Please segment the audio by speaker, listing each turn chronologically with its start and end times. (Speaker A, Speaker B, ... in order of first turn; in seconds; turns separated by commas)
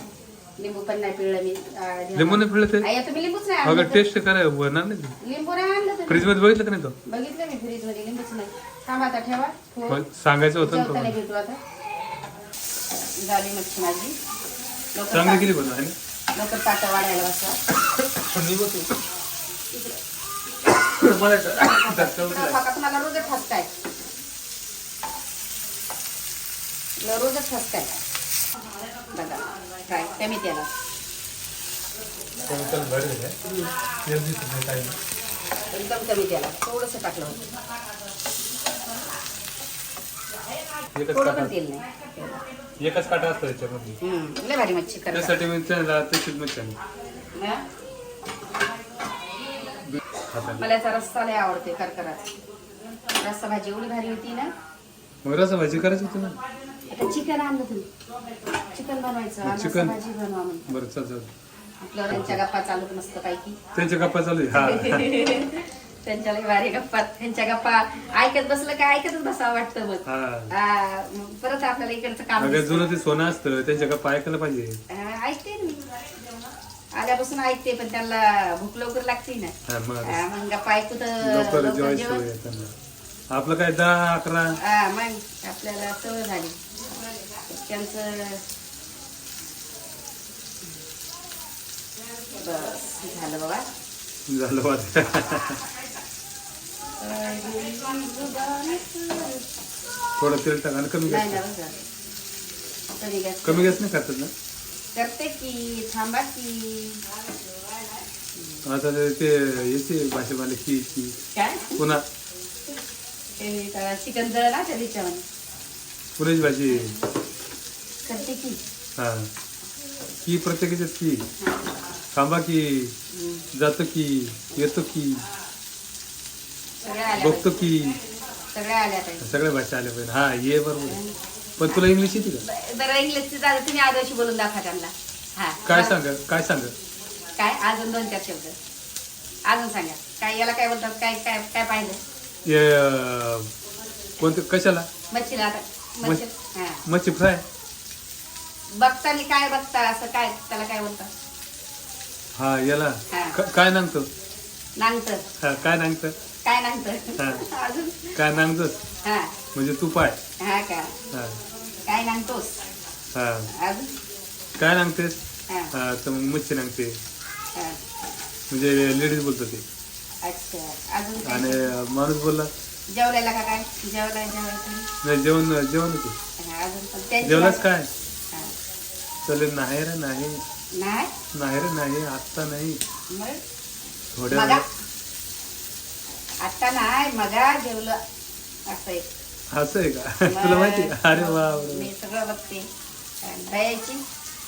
Speaker A: 0.6-4.0, Speaker B: 2.1-2.9, Speaker B: 3.6-5.2, Speaker A: 5.2-6.3, Speaker B: 6.1-7.0, Speaker A: 7.0-10.0, Speaker B: 9.9-11.2, Speaker A: 10.6-11.6, Speaker A: 13.2-14.2, Speaker A: 14.9-15.5, Speaker B: 15.1-16.0, Speaker A: 16.3-17.6, Speaker B: 17.7-18.9, Speaker A: 19.7-20.0, Speaker B: 20.7-22.6, Speaker A: 21.4-23.7, Speaker A: 27.0-28.0, Speaker A: 29.1-30.7, Speaker B: 32.4-33.4, Speaker A: 33.4-33.7, Speaker B: 34.0-35.0, Speaker A: 35.7-37.4, Speaker B: 40.9-41.5, Speaker A: 41.1-42.4, Speaker B: 42.8-44.0, Speaker A: 44.0-45.4, Speaker B: 45.1-46.8, Speaker A: 47.3-47.6, Speaker B: 49.9-50.6, Speaker A: 50.5-52.3, Speaker A: 53.1-54.5, Speaker B: 55.2-56.4, Speaker A: 56.9-57.9, Speaker A: 58.7-60.7, Speaker B: 59.4-60.0, Speaker B: 60.7-61.3, Speaker A: 61.8-63.6, Speaker B: 62.1-62.4, Speaker B: 63.7-65.2, Speaker A: 64.5-72.9, Speaker B: 70.0-70.5, Speaker B: 72.4-74.8, Speaker A: 74.9-76.1, Speaker A: 76.9-82.3, Speaker B: 79.7-80.2, Speaker B: 81.2-82.7, Speaker B: 83.3-84.5, Speaker A: 84.6-88.4, Speaker A: 92.3-93.6, Speaker B: 94.3-95.6, Speaker A: 97.0-99.5, Speaker B: 100.2-101.4, Speaker A: 101.0-101.9, Speaker A: 103.0-103.8, Speaker B: 103.4-104.3, Speaker A: 104.9-107.0, Speaker A: 108.3-108.6, Speaker B: 108.6-111.2, Speaker A: 111.3-111.8, Speaker B: 111.8-112.0, Speaker A: 113.4-115.2, Speaker B: 116.2-116.9, Speaker A: 116.7-117.0, Speaker A: 118.0-118.6, Speaker B: 119.0-119.3, Speaker B: 120.2-121.2, Speaker A: 121.4-121.7, Speaker B: 122.1-122.9, Speaker A: 123.1-123.5, Speaker B: 123.5-125.2, Speaker A: 126.8-127.5, Speaker B: 127.2-128.0, Speaker A: 128.5-129.3, Speaker B: 129.2-131.0, Speaker A: 130.9-131.1, Speaker B: 131.6-132.4, Speaker A: 132.4-136.0, Speaker B: 135.6-136.7, Speaker A: 137.3-138.6, Speaker A: 139.5-142.0, Speaker B: 142.4-143.5, Speaker B: 144.2-144.9, Speaker A: 145.1-146.8, Speaker B: 146.8-147.4, Speaker A: 148.7-151.1, Speaker B: 152.4-154.1, Speaker A: 153.1-153.4, Speaker A: 154.8-155.2, Speaker B: 155.4-156.1, Speaker A: 156.4-158.2, Speaker B: 157.2-157.4, Speaker B: 158.1-158.8, Speaker A: 159.0-159.3, Speaker B: 159.5-160.2, Speaker A: 160.4-160.9, Speaker B: 161.1-161.4, Speaker A: 161.9-162.6, Speaker B: 163.1-163.5, Speaker A: 163.5-163.9, Speaker B: 164.6-165.2, Speaker B: 165.7-167.0, Speaker B: 168.5-169.6, Speaker A: 170.2-171.7, Speaker B: 171.2-172.5, Speaker A: 172.9-174.9, Speaker B: 175.0-176.2, Speaker A: 176.4-177.6, Speaker B: 177.2-177.9, Speaker B: 179.2-180.4, Speaker A: 180.8-181.1, Speaker B: 181.3-182.8, Speaker A: 183.1-183.4, Speaker B: 184.1-184.6, Speaker A: 184.3-184.6, Speaker A: 186.4-188.0, Speaker A: 188.7-189.0, Speaker B: 189.5-191.9, Speaker A: 190.2-192.7, Speaker A: 193.2-194.0